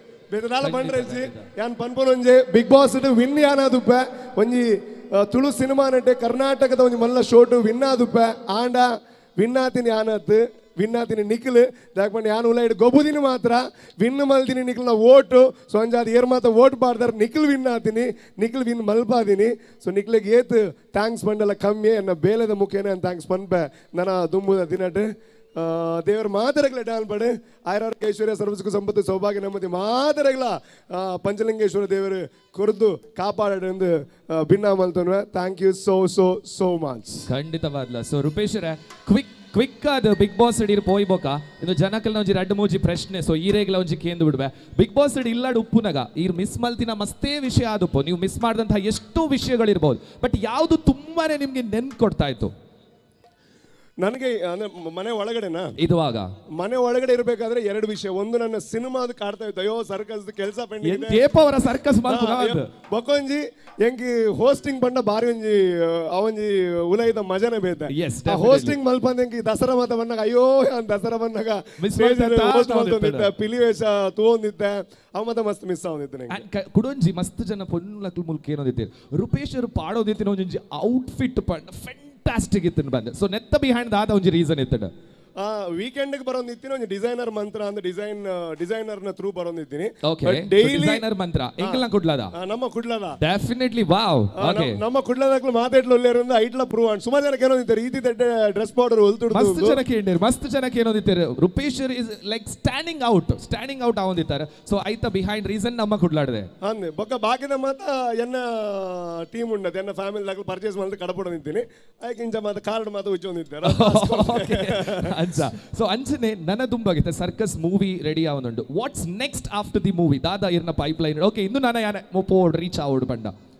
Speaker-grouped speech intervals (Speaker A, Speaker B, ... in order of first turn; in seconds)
Speaker A: 0.3-37.3, 54.0-55.7, 56.6-61.2, 62.1-76.4, 85.4-91.0, 91.6-93.2, 94.3-99.8, 106.6-115.2
Speaker B: 0.6-1.5, 37.3-52.5, 55.8-56.3, 60.8-62.7, 67.9-68.8, 71.8-73.3, 76.3-84.9, 90.0-92.3, 93.2-94.8, 99.3-106.5, 113.6-123.3